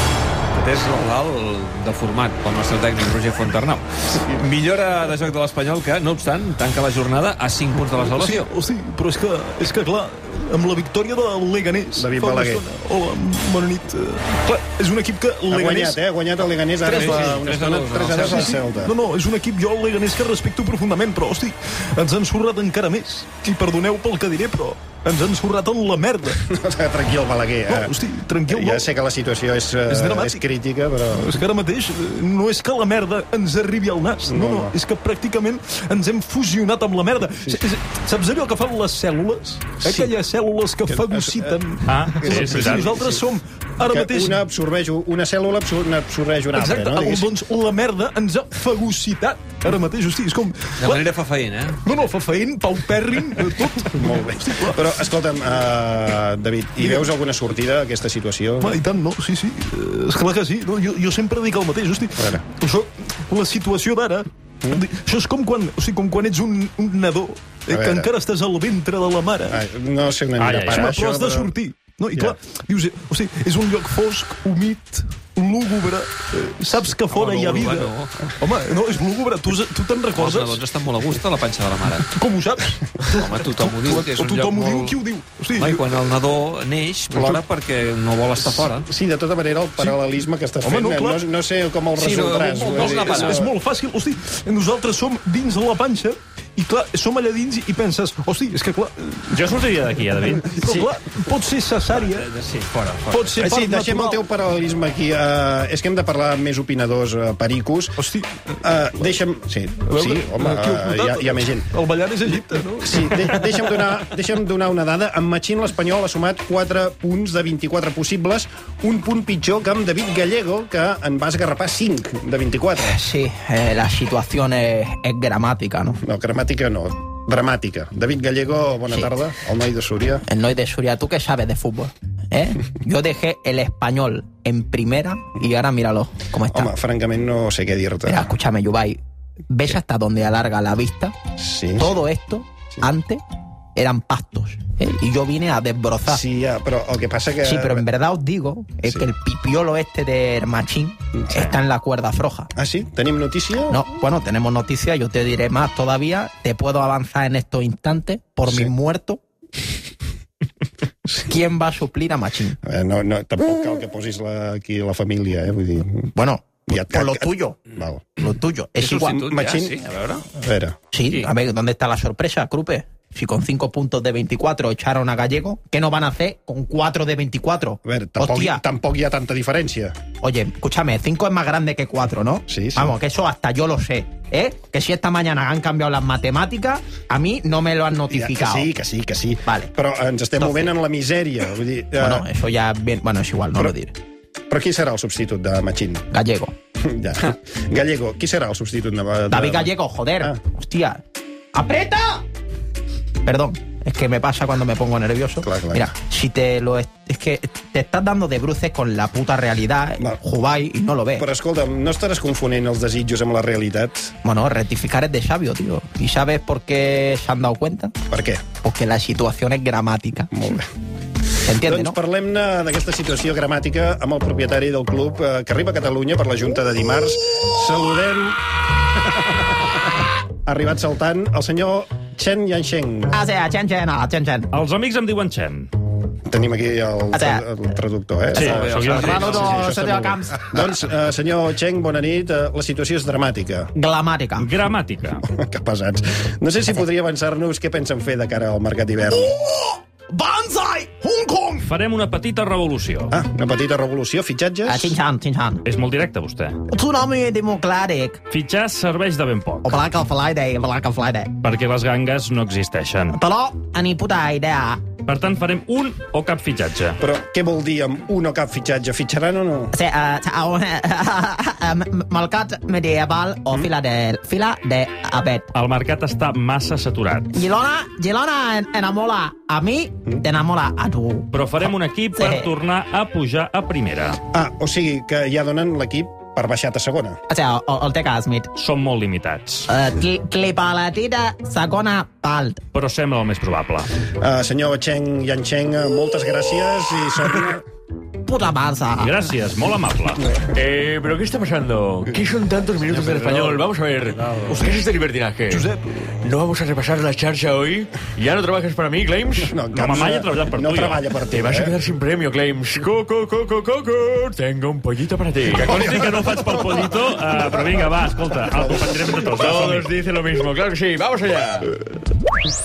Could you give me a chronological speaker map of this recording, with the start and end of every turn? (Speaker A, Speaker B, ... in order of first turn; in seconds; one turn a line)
Speaker A: 0.6-8.5
Speaker B: 7.9-16.0
Speaker C: 11.9-12.6
Speaker C: 15.5-18.9
Speaker A: 16.8-18.6
Speaker B: 16.9-17.5
Speaker B: 18.1-26.4
Speaker C: 26.5-27.9
Speaker B: 27.7-28.9
Speaker C: 28.5-31.4
Speaker B: 29.9-30.4
Speaker B: 31.1-44.4
Speaker C: 34.3-34.7
Speaker C: 39.8-40.1
Speaker C: 40.9-41.6
Speaker D: 41.9-42.9
Speaker C: 42.2-43.2
Speaker C: 43.8-47.3
Speaker B: 46.5-51.1
Speaker A: 50.8-51.8
Speaker B: 51.8-54.8
Speaker C: 54.0-58.8
Speaker B: 56.8-57.1
Speaker B: 58.6-69.6
Speaker C: 67.7-68.1
Speaker C: 69.5-71.5
Speaker D: 70.4-70.9
Speaker B: 70.7-80.6
Speaker A: 77.1-78.2
Speaker A: 80.1-82.1
Speaker B: 82.0-82.8
Speaker A: 83.1-85.0
Speaker B: 83.4-86.0
Speaker A: 85.6-88.9
Speaker C: 87.2-87.4
Speaker C: 88.9-93.5
Speaker B: 90.6-91.2
Speaker A: 92.0-93.4
Speaker B: 92.1-102.3
Speaker D: 99.3-100.9
Speaker A: 101.9-103.4
Speaker B: 103.1-104.2
Speaker C: 103.4-108.0
Speaker B: 108.0-109.1
Speaker C: 108.6-111.7
Speaker B: 109.8-113.7
Speaker C: 112.8-123.0
Speaker E: 122.8-126.0
Speaker C: 126.0-130.2
Speaker E: 130.3-136.7
Speaker C: 136.5-138.3
Speaker E: 138.1-141.2
Speaker C: 141.4-141.9
Speaker E: 141.8-143.2
Speaker E: 143.8-146.2
Speaker C: 146.1-147.8
Speaker E: 147.4-152.5
Speaker C: 152.6-153.8
Speaker E: 153.7-159.2
Speaker E: 161.2-162.6
Speaker C: 162.6-166.1
Speaker E: 166.2-167.6
Speaker C: 166.7-168.1
Speaker E: 168.2-169.3
Speaker A: 168.8-170.2
Speaker C: 169.2-169.8
Speaker C: 170.3-170.8
Speaker E: 170.9-178.6
Speaker A: 171.1-171.3
Speaker C: 177.8-180.0
Speaker E: 180.2-188.7
Speaker C: 182.5-182.9
Speaker C: 188.1-192.3
Speaker E: 190.4-190.7
Speaker E: 192.0-193.9
Speaker C: 194.5-196.1
Speaker E: 196.1-196.5
Speaker C: 196.8-199.7
Speaker E: 199.3-201.0
Speaker E: 201.5-202.2
Speaker E: 203.2-211.3
Speaker C: 205.4-205.9
Speaker C: 211.2-214.1
Speaker E: 214.2-217.9
Speaker C: 218.1-218.5
Speaker E: 218.6-220.3
Speaker C: 220.3-220.7
Speaker E: 221.4-222.0
Speaker C: 221.6-228.4
Speaker C: 230.5-233.2
Speaker E: 233.1-234.5
Speaker D: 234.5-235.7
Speaker C: 236.3-243.7
Speaker E: 237.1-237.4
Speaker D: 238.3-239.6
Speaker A: 238.4-239.7
Speaker E: 238.8-240.8
Speaker E: 243.8-244.5
Speaker D: 244.4-245.2
Speaker C: 245.3-249.3
Speaker E: 250.2-251.6
Speaker D: 251.6-253.1
Speaker C: 253.1-254.9
Speaker E: 254.7-255.7
Speaker D: 255.7-256.6
Speaker E: 256.7-258.2
Speaker D: 258.3-259.7
Speaker E: 259.6-261.3
Speaker D: 261.4-263.2
Speaker E: 263.1-264.8
Speaker D: 265.1-267.0
Speaker C: 267.0-269.7
Speaker E: 269.7-275.5
Speaker D: 275.5-277.3
Speaker E: 277.3-281.3
Speaker D: 281.3-284.2
Speaker E: 282.2-282.5
Speaker C: 284.3-287.2
Speaker E: 287.3-288.5
Speaker D: 288.6-289.7
Speaker E: 289.7-292.6
Speaker D: 292.7-293.9
Speaker C: 294.2-297.6
Speaker E: 298.2-299.3
Speaker D: 299.0-300.2
Speaker F: 300.5-305.7
Speaker B: 305.5-306.1
Speaker F: 306.2-309.5
Speaker C: 309.4-311.8
Speaker D: 309.7-311.1
Speaker F: 311.3-316.0
Speaker D: 315.7-319.9
Speaker C: 315.7-316.6
Speaker F: 319.3-321.7